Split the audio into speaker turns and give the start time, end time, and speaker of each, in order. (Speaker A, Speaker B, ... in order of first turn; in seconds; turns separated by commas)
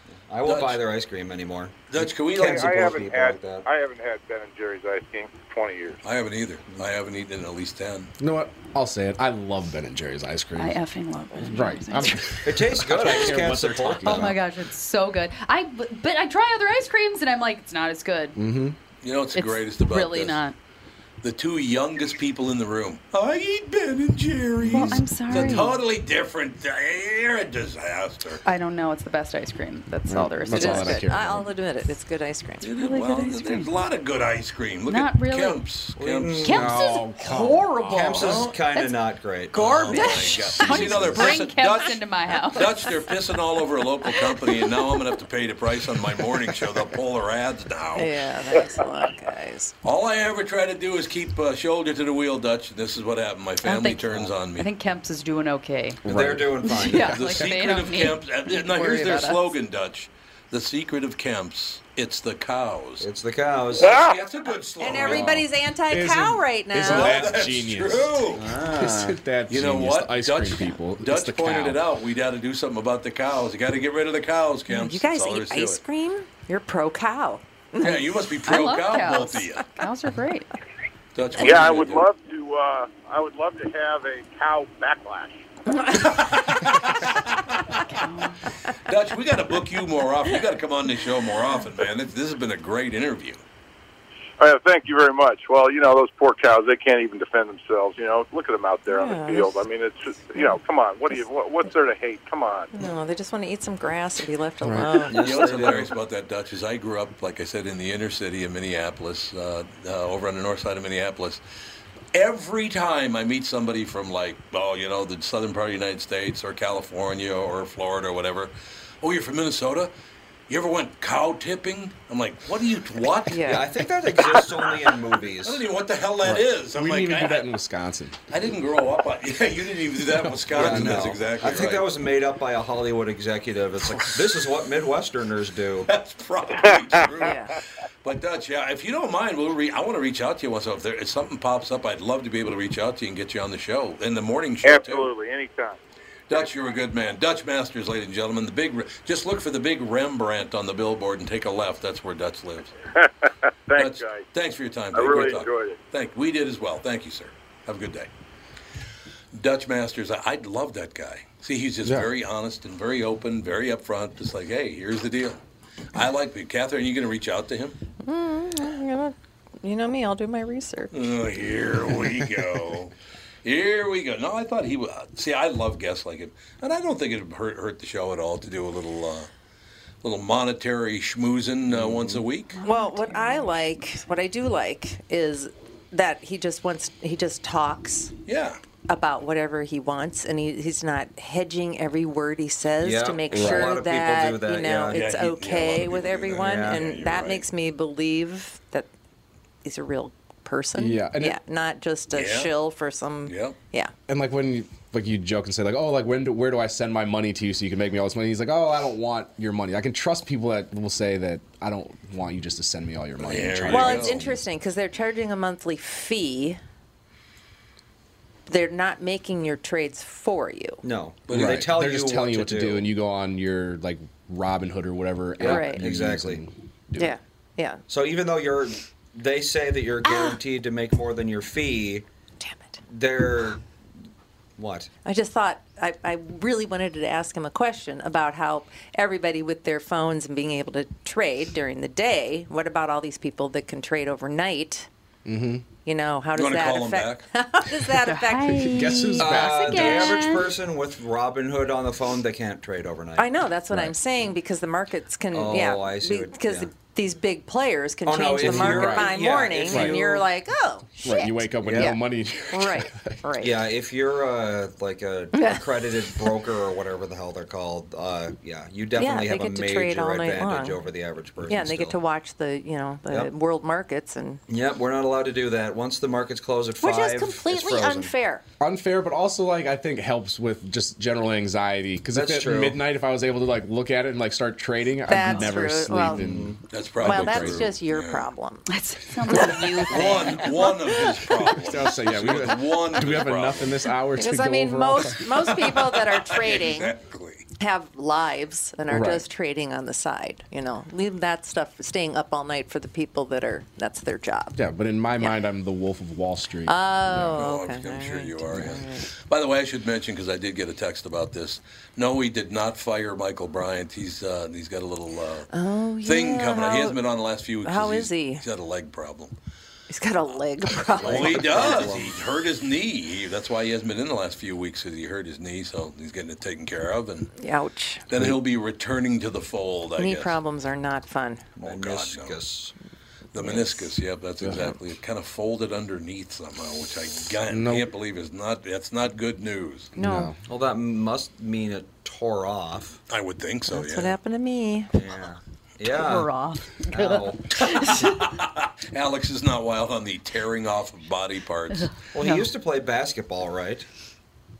Speaker A: 0.2-3.7, Speaker B: 0.4-0.8, Speaker B: 1.9-2.7, Speaker C: 2.4-6.0, Speaker B: 6.0-8.1, Speaker D: 8.2-10.8, Speaker E: 10.6-13.5, Speaker D: 11.3-14.4, Speaker A: 12.4-14.4, Speaker E: 14.0-18.4, Speaker D: 18.4-18.8, Speaker B: 19.0-20.4, Speaker E: 19.3-20.6, Speaker B: 21.2-28.4, Speaker D: 24.6-25.7, Speaker E: 24.7-25.8, Speaker E: 28.4-31.0, Speaker D: 30.1-31.5, Speaker F: 30.5-32.7, Speaker B: 32.6-36.7, Speaker E: 32.8-33.7, Speaker E: 34.9-35.7, Speaker A: 35.9-41.3, Speaker E: 36.4-43.1, Speaker D: 36.5-38.5, Speaker B: 38.1-38.5, Speaker B: 39.5-48.3, Speaker D: 40.6-41.4, Speaker E: 44.1-45.0, Speaker F: 48.0-49.7, Speaker B: 49.8-54.7, Speaker E: 53.6-56.0, Speaker D: 56.0-56.7, Speaker A: 56.0-57.4, Speaker E: 56.6-59.5, Speaker B: 57.0-63.0, Speaker A: 63.0-64.0, Speaker B: 63.8-65.2, Speaker C: 63.8-64.1, Speaker F: 64.8-67.2, Speaker D: 64.8-71.8, Speaker B: 66.8-68.4, Speaker A: 68.3-69.2, Speaker B: 69.5-75.8, Speaker F: 74.7-78.0, Speaker B: 77.8-79.7, Speaker E: 78.4-80.5, Speaker B: 81.1-82.0, Speaker C: 81.4-85.4, Speaker F: 85.8-86.4, Speaker B: 86.0-87.8, Speaker E: 87.8-88.4, Speaker B: 88.8-93.4, Speaker C: 94.4-102.7, Speaker F: 98.9-99.6, Speaker F: 102.7-105.1, Speaker D: 104.6-105.0, Speaker A: 105.1-105.9, Speaker B: 105.2-111.4, Speaker B: 112.1-118.5, Speaker B: 119.0-119.9, Speaker B: 120.5-123.4, Speaker F: 123.3-123.7, Speaker A: 123.4-125.6, Speaker B: 125.4-127.5, Speaker D: 126.2-128.2, Speaker B: 128.3-131.8, Speaker D: 130.2-131.5, Speaker A: 130.5-135.9, Speaker B: 135.9-145.1, Speaker F: 137.2-137.5, Speaker C: 144.6-145.8, Speaker B: 146.3-152.7, Speaker C: 152.9-154.2, Speaker B: 153.8-158.1, Speaker C: 154.9-155.8, Speaker B: 159.3-165.4, Speaker D: 161.8-162.1, Speaker B: 165.9-167.8, Speaker F: 168.0-171.0, Speaker B: 170.9-172.9, Speaker B: 173.4-179.3, Speaker B: 180.0-182.6, Speaker A: 181.7-182.2, Speaker E: 182.6-183.4, Speaker F: 182.6-188.1, Speaker B: 188.3-188.6, Speaker F: 188.9-198.9, Speaker A: 192.8-195.0, Speaker D: 193.3-193.8, Speaker B: 194.9-197.4, Speaker A: 196.3-196.8, Speaker F: 199.6-203.9, Speaker D: 200.8-201.4, Speaker B: 202.1-202.5, Speaker B: 203.2-203.6, Speaker D: 204.1-214.4, Speaker B: 213.2-214.2, Speaker F: 213.7-216.6, Speaker F: 218.5-220.8, Speaker A: 220.8-222.9, Speaker B: 221.3-221.7, Speaker D: 221.3-227.2, Speaker A: 225.4-226.4, Speaker F: 225.4-225.8, Speaker F: 227.0-227.8, Speaker A: 227.9-232.0, Speaker F: 230.1-230.4, Speaker F: 232.4-232.8, Speaker A: 232.9-233.6, Speaker A: 234.6-234.9, Speaker F: 235.0-244.9, Speaker D: 245.3-245.6, Speaker F: 245.8-248.8, Speaker B: 246.3-247.2, Speaker E: 248.0-250.5, Speaker D: 248.6-250.3, Speaker A: 249.2-253.8, Speaker F: 253.2-262.0, Speaker A: 255.3-256.7, Speaker A: 258.0-260.2, Speaker D: 258.4-260.2, Speaker D: 261.0-263.2, Speaker A: 261.6-261.9, Speaker F: 262.5-263.6, Speaker A: 263.4-272.0, Speaker F: 265.4-265.6, Speaker F: 268.9-270.8, Speaker F: 271.4-274.4, Speaker A: 274.5-278.1, Speaker F: 276.8-278.4, Speaker D: 278.6-287.6, Speaker A: 282.1-282.8, Speaker F: 285.1-286.2, Speaker E: 285.2-285.5, Speaker A: 285.9-286.6, Speaker B: 286.7-288.3, Speaker F: 287.0-288.6, Speaker E: 288.7-291.2, Speaker F: 289.3-290.7, Speaker B: 289.9-293.8, Speaker D: 291.5-295.5, Speaker F: 294.2-296.9, Speaker B: 295.4-297.4, Speaker F: 297.6-304.6, Speaker D: 298.9-299.2, Speaker D: 304.6-307.4, Speaker F: 306.7-309.1, Speaker B: 307.3-315.5, Speaker D: 308.6-308.8, Speaker F: 315.5-317.0, Speaker B: 316.0-319.3, Speaker F: 317.6-318.4, Speaker F: 319.9-321.9, Speaker A: 321.0-322.2, Speaker B: 321.0-327.3, Speaker F: 327.4-328.0, Speaker B: 328.1-330.4, Speaker F: 330.0-331.5, Speaker A: 331.6-332.7, Speaker B: 331.6-332.4, Speaker B: 333.3-339.9, Speaker D: 337.5-337.9, Speaker D: 339.9-340.4, Speaker F: 340.0-340.3, Speaker A: 340.4-343.0, Speaker B: 343.1-344.2, Speaker F: 343.7-344.9, Speaker A: 344.9-346.3, Speaker E: 345.8-348.2, Speaker A: 346.9-347.4, Speaker B: 347.6-351.9, Speaker E: 351.7-352.5, Speaker A: 352.1-353.9